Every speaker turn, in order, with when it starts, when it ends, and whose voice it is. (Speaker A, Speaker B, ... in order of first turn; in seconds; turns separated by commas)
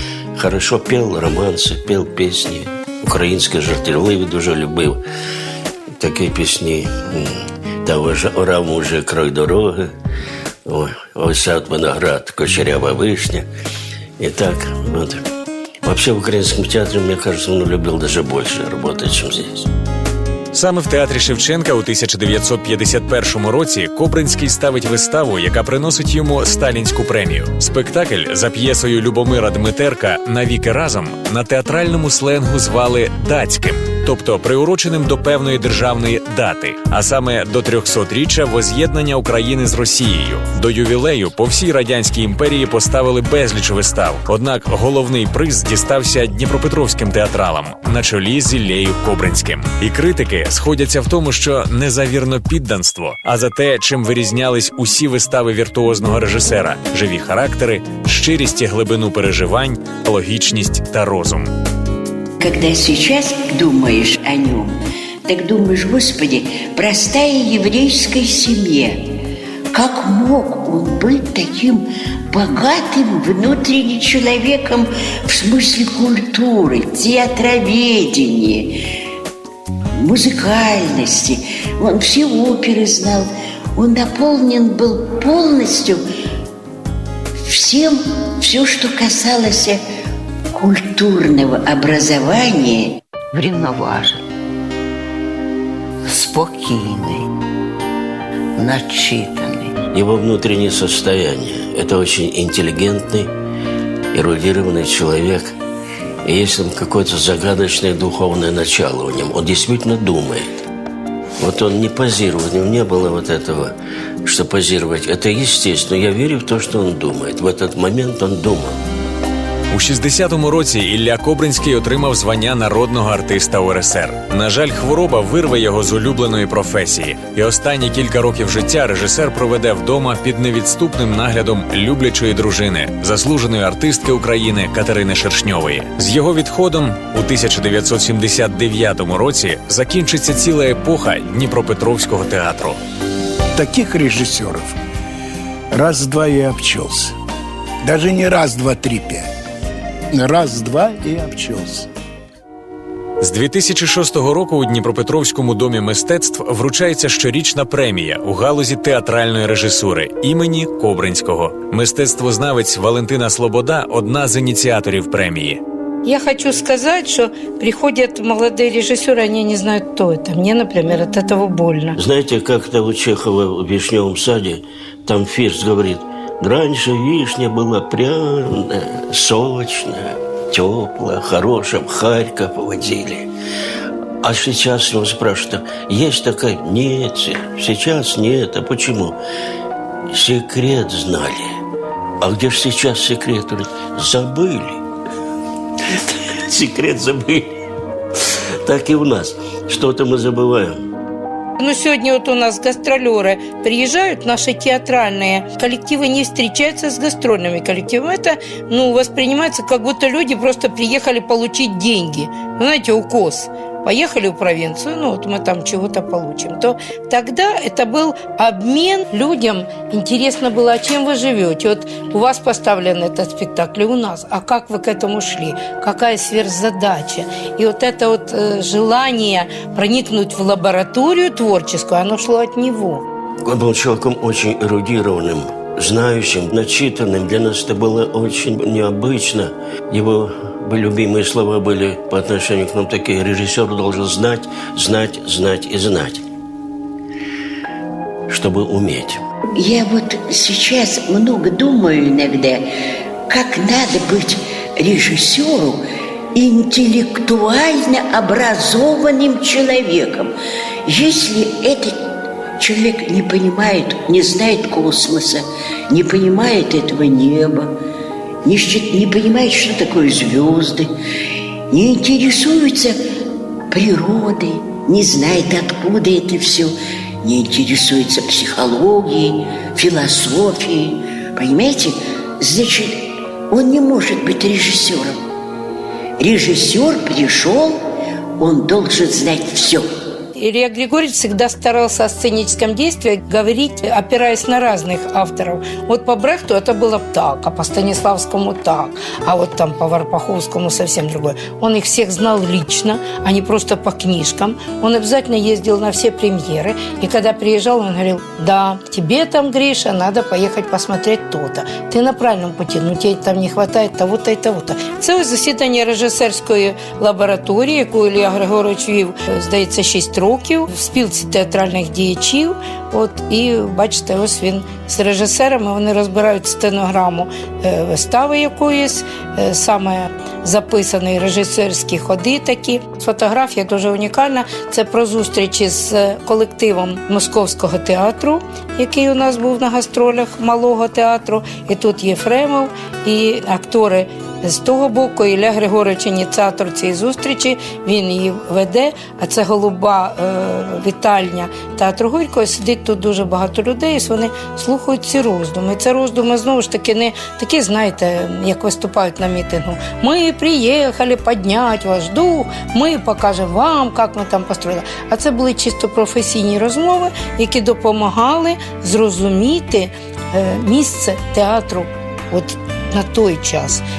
Speaker A: 0.4-5.0, Speaker A: 6.0-9.9, Speaker A: 10.7-13.4, Speaker A: 14.2-15.2, Speaker A: 15.8-19.7, Speaker B: 20.5-61.5, Speaker C: 62.4-69.2, Speaker C: 69.7-79.0, Speaker C: 80.0-86.0, Speaker C: 87.4-89.8, Speaker C: 90.5-93.0, Speaker D: 93.3-94.2, Speaker D: 96.0-97.3, Speaker D: 98.6-99.8, Speaker A: 99.9-103.3, Speaker A: 104.1-105.5, Speaker A: 106.2-110.5, Speaker A: 111.4-118.8, Speaker B: 119.7-142.8, Speaker E: 143.6-144.8, Speaker E: 145.7-147.2, Speaker E: 147.8-149.3, Speaker E: 150.1-151.9, Speaker B: 153.2-165.6, Speaker F: 166.1-172.0, Speaker A: 172.0-183.3, Speaker A: 184.2-189.2, Speaker A: 190.1-191.6, Speaker A: 192.2-194.8, Speaker A: 195.8-197.6, Speaker A: 198.2-200.8, Speaker F: 201.6-233.0, Speaker A: 233.4-246.2, Speaker A: 248.3-249.2, Speaker C: 249.6-252.7, Speaker C: 253.3-255.8, Speaker C: 256.3-260.3, Speaker C: 260.9-267.8, Speaker C: 268.4-270.9, Speaker C: 271.7-273.0, Speaker C: 273.7-285.2, Speaker C: 286.2-287.8, Speaker C: 288.4-289.9, Speaker F: 290.4-373.8